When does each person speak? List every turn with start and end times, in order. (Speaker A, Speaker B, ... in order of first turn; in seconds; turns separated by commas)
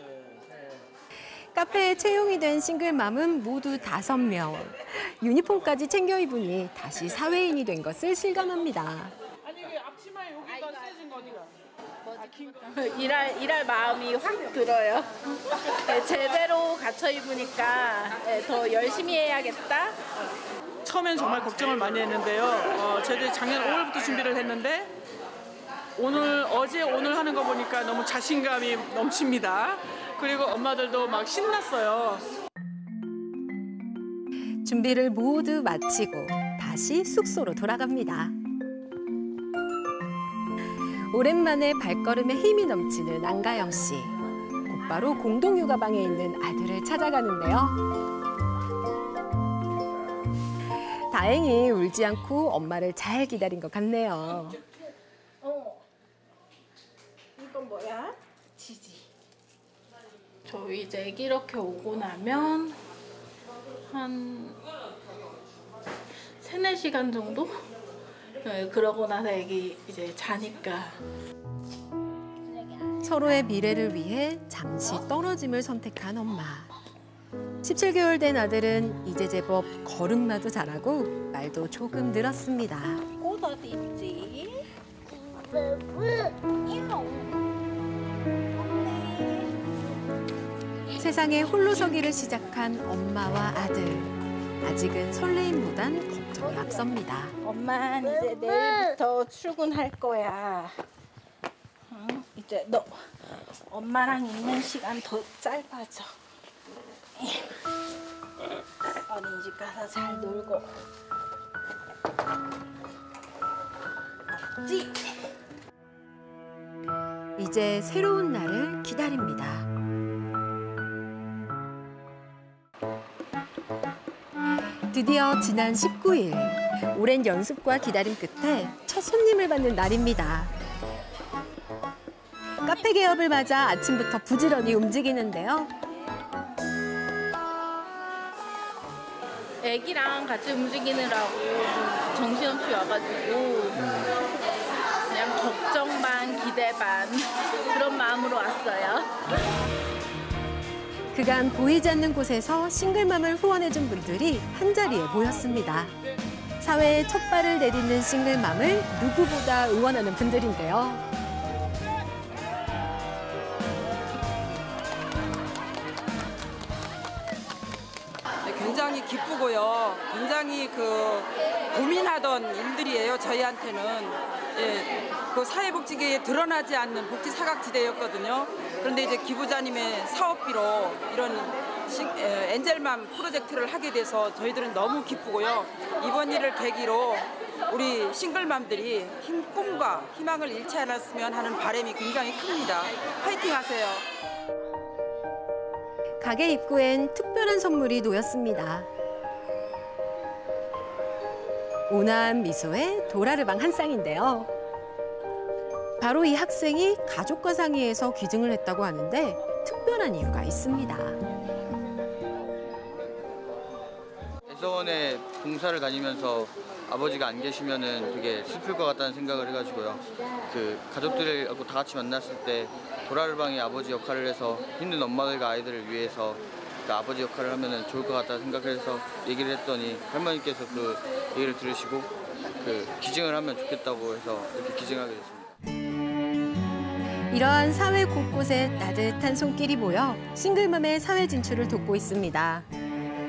Speaker A: 1.5-9.2, Speaker B: 10.5-10.8, Speaker B: 12.1-20.0, Speaker C: 20.9-24.9, Speaker C: 26.0-32.2, Speaker A: 34.6-38.4, Speaker A: 41.1-47.8, Speaker A: 51.1-54.6, Speaker B: 55.4-55.8, Speaker B: 57.4-59.0, Speaker B: 60.5-62.8, Speaker B: 63.9-64.6, Speaker B: 66.4-67.5, Speaker B: 68.4-71.0, Speaker B: 72.5-72.9, Speaker A: 73.0-76.7, Speaker A: 77.6-83.0, Speaker B: 83.2-84.6, Speaker B: 86.7-87.3, Speaker B: 88.7-89.5, Speaker A: 91.0-97.3, Speaker B: 97.4-100.8, Speaker B: 101.9-106.1, Speaker B: 107.2-107.6, Speaker B: 109.1-110.7, Speaker B: 114.3-115.1, Speaker A: 117.4-119.7, Speaker A: 124.9-130.5, Speaker A: 132.6-135.7, Speaker B: 139.6-144.2, Speaker B: 145.1-149.1, Speaker A: 151.1-155.9, Speaker A: 156.6-161.0, Speaker D: 168.4-194.1, Speaker A: 196.2-198.9, Speaker A: 201.9-204.5, Speaker A: 206.0-211.2, Speaker E: 214.5-235.5, Speaker A: 237.3-242.7